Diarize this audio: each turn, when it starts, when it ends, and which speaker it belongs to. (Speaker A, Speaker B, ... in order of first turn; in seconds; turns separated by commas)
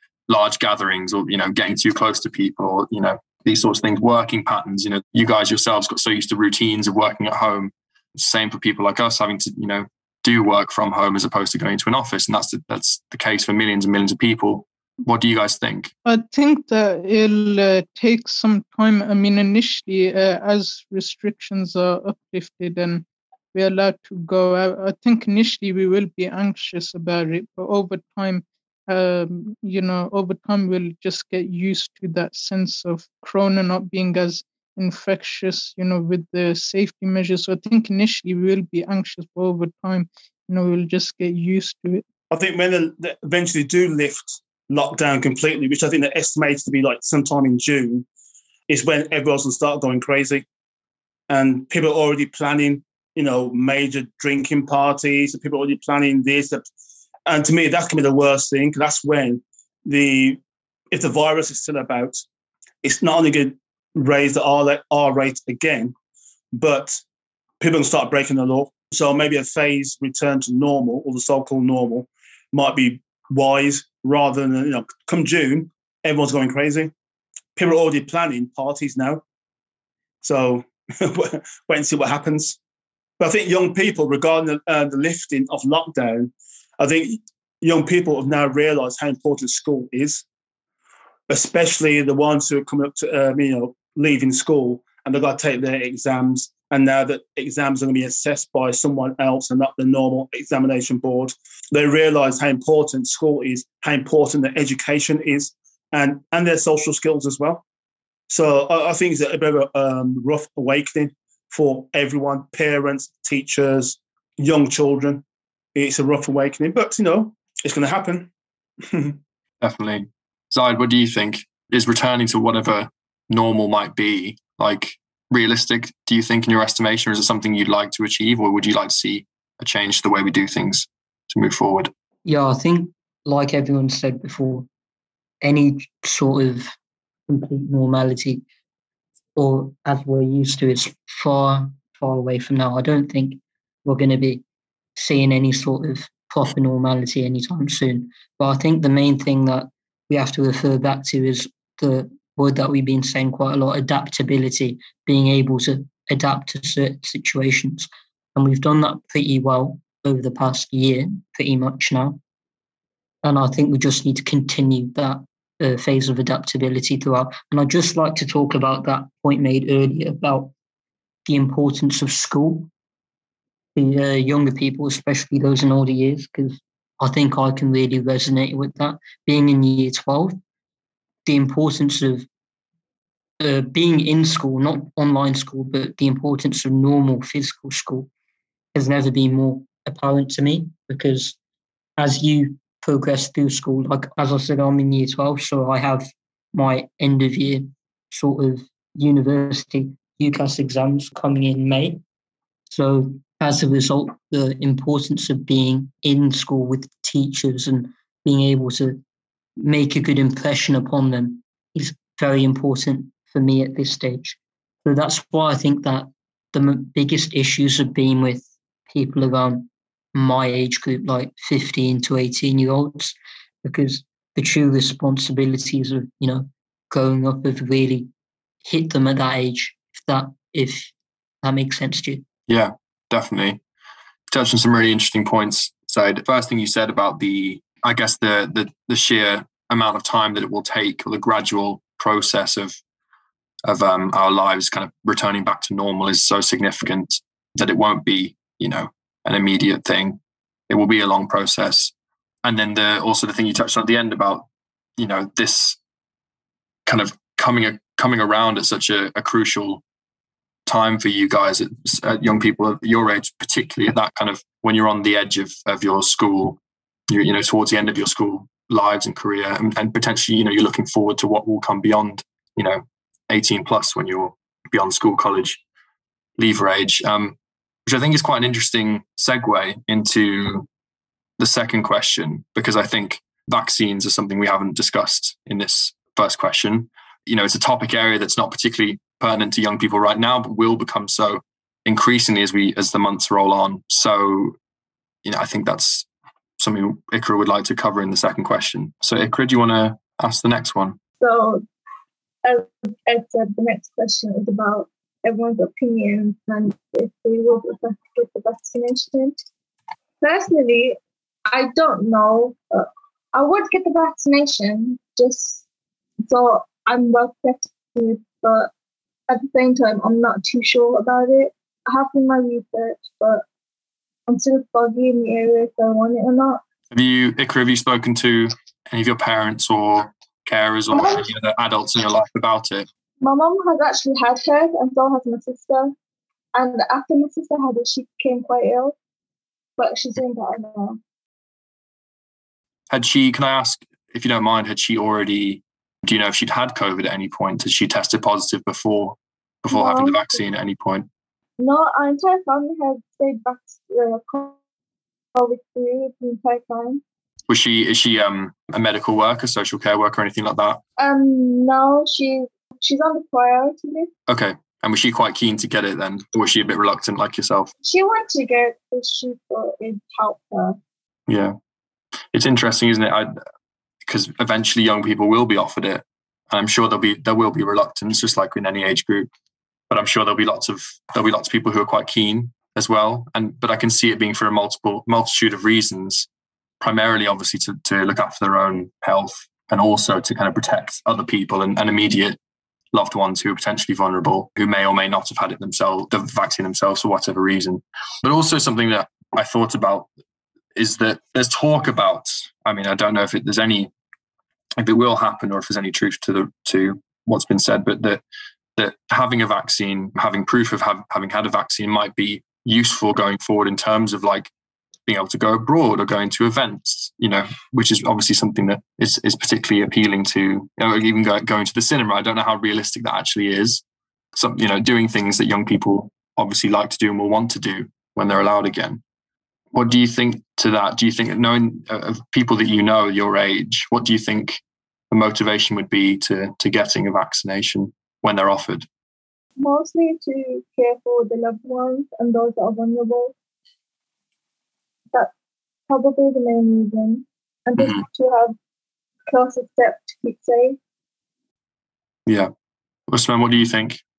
Speaker A: 0.3-15.9, Speaker B: 16.0-42.0, Speaker C: 42.3-48.0, Speaker C: 48.7-50.4, Speaker C: 51.3-56.6, Speaker C: 57.2-60.4, Speaker C: 60.9-62.2, Speaker C: 62.8-65.9, Speaker C: 66.5-67.0, Speaker C: 67.6-76.9, Speaker C: 77.5-79.2, Speaker C: 80.2-82.6, Speaker C: 83.2-90.2, Speaker C: 91.3-107.6, Speaker C: 108.3-115.2, Speaker C: 115.7-118.3, Speaker C: 118.8-119.2, Speaker A: 119.6-131.9, Speaker D: 132.2-134.7, Speaker D: 135.4-136.7, Speaker D: 137.3-138.4, Speaker D: 139.3-144.4, Speaker D: 144.9-162.2, Speaker D: 163.2-170.5, Speaker D: 171.2-172.7, Speaker D: 173.7-180.4, Speaker D: 181.2-182.3, Speaker D: 183.4-188.1, Speaker D: 188.7-191.4, Speaker D: 192.0-202.0, Speaker D: 202.7-209.0, Speaker D: 209.6-228.1, Speaker D: 228.6-230.9, Speaker D: 231.4-232.2, Speaker A: 232.5-233.6, Speaker A: 234.3-242.8, Speaker A: 243.6-251.9, Speaker A: 252.4-255.8, Speaker A: 256.9-259.8, Speaker A: 260.7-266.6, Speaker A: 267.1-275.6, Speaker A: 276.4-277.4, Speaker A: 277.9-280.7, Speaker A: 281.4-294.6, Speaker A: 295.2-296.1, Speaker A: 296.6-301.0, Speaker E: 301.2-301.6, Speaker E: 302.4-309.4, Speaker E: 310.2-315.6, Speaker E: 316.2-318.7, Speaker E: 319.3-323.4, Speaker E: 324.3-326.6, Speaker A: 326.9-332.9, Speaker E: 330.9-331.3, Speaker E: 333.2-335.9, Speaker E: 336.5-338.9, Speaker E: 339.8-341.0, Speaker A: 342.9-351.1, Speaker E: 349.7-350.4, Speaker E: 351.6-354.6, Speaker E: 355.3-357.0, Speaker A: 357.5-360.8, Speaker E: 361.0-364.1, Speaker A: 364.3-367.7, Speaker E: 367.8-370.8, Speaker A: 371.3-371.5, Speaker A: 372.3-373.3, Speaker A: 374.0-379.3, Speaker A: 379.9-386.3, Speaker A: 386.8-392.4, Speaker A: 392.9-400.1, Speaker A: 400.7-403.9, Speaker A: 404.8-408.2, Speaker A: 408.8-414.5, Speaker A: 415.1-423.8, Speaker A: 424.3-429.0, Speaker A: 429.7-438.9, Speaker E: 439.6-443.3, Speaker E: 445.9-448.6, Speaker A: 447.8-448.0, Speaker E: 449.3-450.8, Speaker A: 453.1-454.0